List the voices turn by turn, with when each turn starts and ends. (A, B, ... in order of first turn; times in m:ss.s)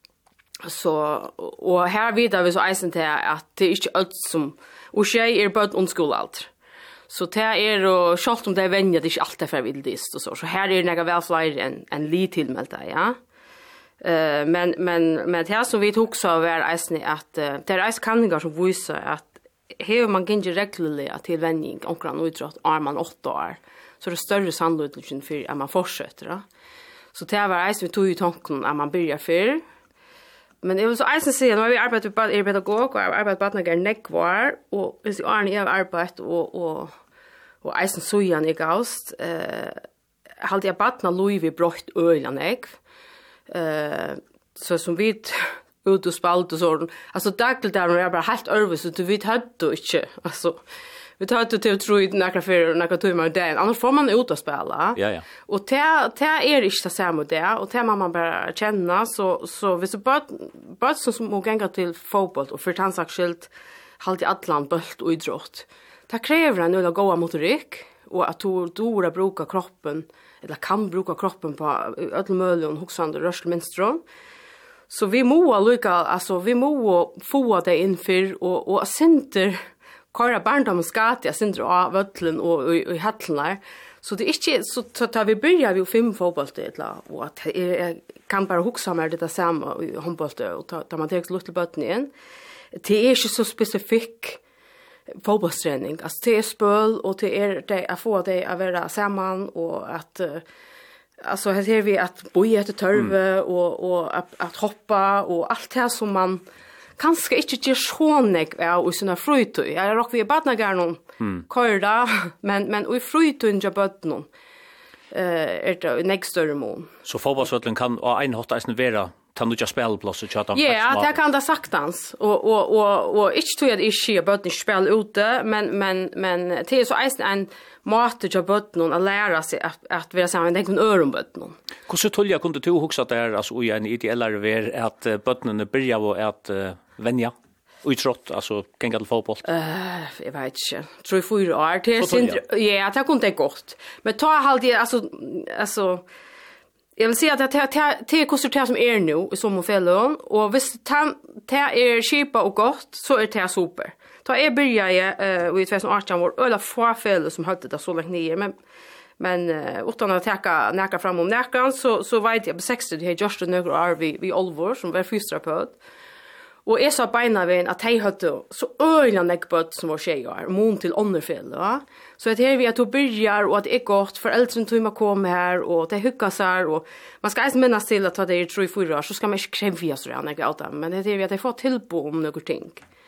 0:00.6-0:06.5 A
0:07.1-0:13.2 A
0:14.0-0:26.4 A
0:27.1-0:29.6 A
0:30.6-0:37.0 A
0:37.6-0:39.8 A
0:40.4-0:42.8 A
0:43.5-0:50.6 A
0:51.2-1:14.0 A
0:55.0-0:55.2 B
1:14.9-1:19.6 A
1:20.1-1:32.1 A
1:32.8-1:34.4 A
1:35.2-1:40.4 A
1:41.2-1:46.4 A
1:47.0-1:54.3 A
1:55.1-1:56.9 A
1:57.0-2:01.1 B
2:00.6-2:11.6 A
2:11.9-2:19.4 B
2:19.4-2:26.0 A
2:22.0-2:22.4 B
2:27.0-2:38.5 A
2:39.2-2:45.8 A
2:46.7-3:02.8 A